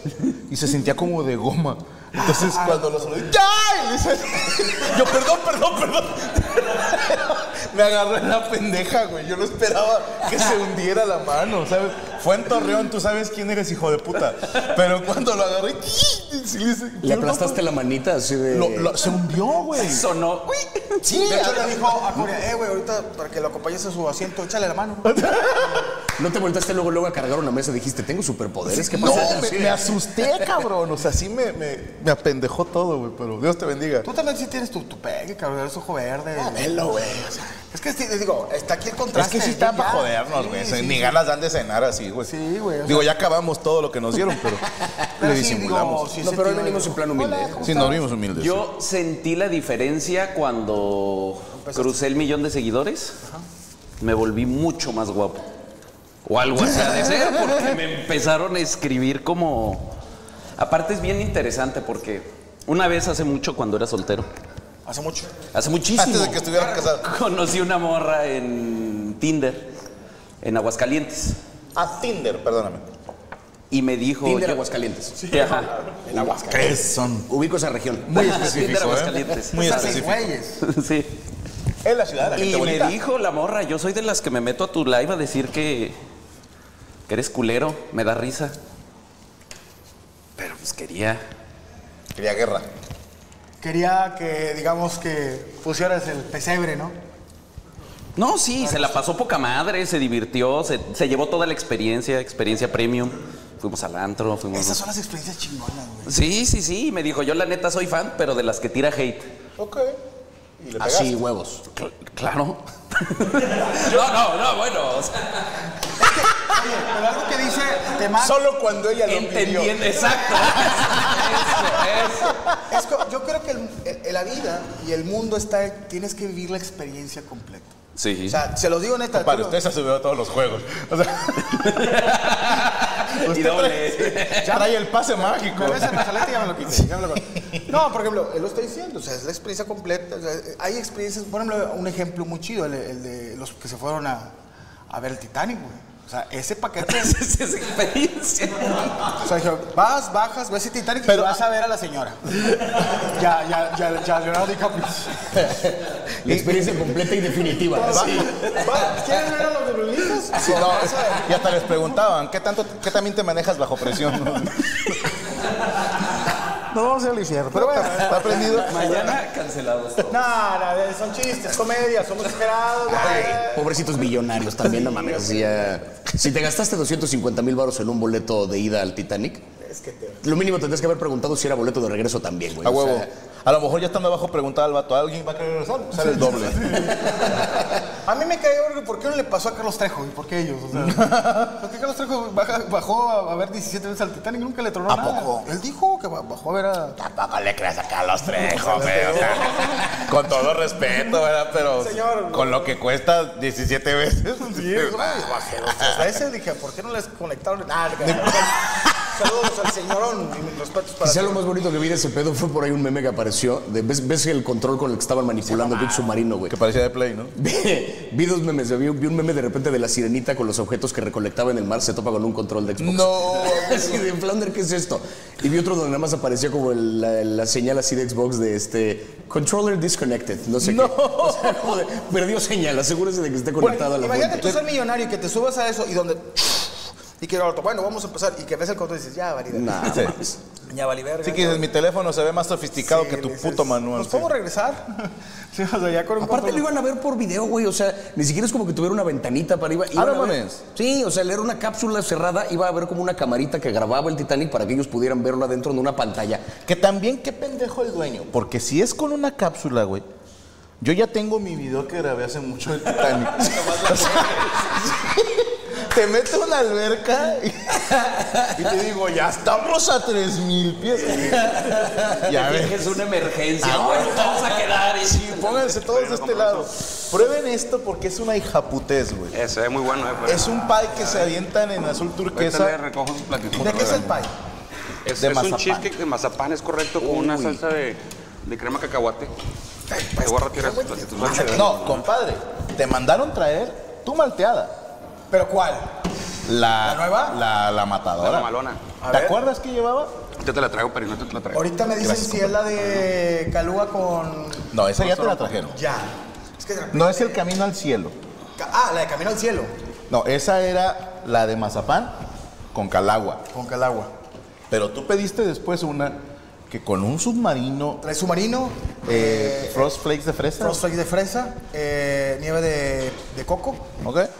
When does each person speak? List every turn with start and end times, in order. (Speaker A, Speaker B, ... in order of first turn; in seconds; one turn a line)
Speaker A: 0.3-17.6
Speaker B: 2.1-3.0
Speaker C: 17.0-19.1
Speaker A: 18.5-20.1
Speaker D: 19.7-21.1
Speaker A: 21.0-22.3
Speaker B: 21.1-25.7
Speaker A: 25.0-25.9
Speaker C: 26.1-30.6
Speaker A: 28.6-34.1
Speaker B: 34.0-36.9
Speaker A: 36.4-37.5
Speaker B: 37.5-41.2
Speaker A: 39.1-42.3
Speaker B: 42.2-43.1
Speaker A: 42.8-46.1
Speaker C: 44.6-45.0
Speaker B: 45.2-48.0
Speaker C: 46.2-47.8
Speaker A: 47.6-48.6
Speaker D: 48.4-53.2
Speaker B: 51.5-52.0
Speaker D: 54.0-55.5
Speaker D: 56.2-60.0
Speaker A: 56.7-57.5
Speaker D: 60.5-64.3
Speaker B: 64.8-65.3
Speaker D: 65.5-69.7
Speaker A: 65.9-67.1
Speaker D: 70.4-71.4
Speaker A: 71.7-72.8
Speaker D: 73.7-74.6
Speaker C: 74.2-75.3
Speaker B: 75.2-76.8
Speaker D: 75.2-75.7
Speaker C: 76.1-78.4
Speaker A: 76.1-77.3
Speaker A: 78.0-80.3
Speaker D: 78.1-80.0
Speaker B: 79.5-80.6
Speaker D: 80.6-81.1
Speaker A: 81.8-83.0
Speaker D: 82.3-86.0
Speaker D: 87.1-88.5
Speaker D: 90.4-91.2
Speaker A: 92.1-92.7
Speaker B: 93.6-97.0
Speaker D: 98.2-104.8
Speaker B: 98.6-99.0
Speaker B: 104.5-106.1
Speaker D: 106.0-109.3
Speaker A: 109.6-110.0
Speaker A: 110.6-111.2
Speaker C: 110.8-111.6
Speaker D: 111.7-115.7
Speaker B: 116.0-118.5
Speaker A: 118.1-122.5
Speaker D: 119.0-122.5
Speaker B: 120.2-120.8
Speaker B: 122.7-127.7
Speaker D: 128.0-128.4
Speaker B: 128.3-129.6
Speaker A: 129.1-137.7
Speaker D: 131.6-134.7
Speaker B: 134.4-144.3
Speaker B: 144.9-147.2
Speaker D: 146.8-149.2
Speaker B: 149.2-155.3
Speaker A: 151.1-151.4
Speaker C: 155.3-158.4
Speaker A: 156.2-157.0
Speaker B: 157.7-161.3
Speaker A: 157.9-158.3
Speaker A: 160.3-165.1
Speaker B: 166.7-168.8
Speaker A: 167.5-169.2
Speaker D: 168.0-170.2
Speaker B: 170.1-173.7
Speaker C: 172.8-179.4
Speaker B: 174.6-175.8
Speaker B: 179.6-180.2
Speaker C: 180.2-183.1
Speaker A: 182.6-187.4
Speaker B: 186.1-187.3
Speaker B: 187.9-197.0
Speaker A: 190.7-191.5
Speaker A: 194.9-195.5
Speaker A: 197.0-206.2
Speaker B: 198.3-199.9
Speaker B: 201.6-202.8
Speaker B: 204.4-211.5
Speaker A: 208.0-208.9
Speaker C: 211.0-216.6
Speaker A: 216.5-217.3
Speaker C: 217.3-234.6
Speaker A: 222.8-224.1
Speaker A: 230.6-231.8
Speaker B: 233.6-241.7
Speaker C: 239.5-240.4
Speaker A: 239.8-240.2
Speaker A: 241.2-244.3
Speaker B: 242.8-244.9
Speaker B: 245.5-246.7
Speaker C: 246.2-256.5
Speaker A: 249.9-250.6
Speaker A: 256.6-260.0
Speaker A: 260.8-272.9
Speaker D: 263.3-264.7
Speaker D: 271.3-276.5
Speaker A: 273.6-279.3
Speaker E: 276.1-276.6
Speaker E: 279.3-281.1
Speaker A: 280.2-282.8
Speaker E: 282.3-284.2
Speaker B: 283.6-284.3
Speaker E: 285.1-289.3
Speaker A: 285.1-285.9
Speaker C: 287.0-287.6
Speaker B: 289.9-291.7
Speaker E: 290.2-292.0
Speaker A: 291.5-294.7
Speaker B: 295.3-296.0
Speaker A: 296.4-298.5
Speaker B: 296.8-297.4
Speaker E: 298.2-298.9
Speaker B: 299.0-299.4
Speaker A: 299.1-300.1
Speaker E: 300.4-301.8
Speaker B: 301.5-307.4
Speaker A: 302.0-302.6
Speaker A: 304.7-305.8
Speaker A: 306.9-308.1
Speaker B: 308.6-309.7
Speaker A: 310.1-312.2
Speaker A: 312.7-313.4
Speaker B: 313.5-314.1
Speaker A: 314.7-318.0
Speaker B: 318.0-319.9
Speaker A: 319.1-320.8
Speaker B: 320.6-323.9
Speaker A: 324.0-324.3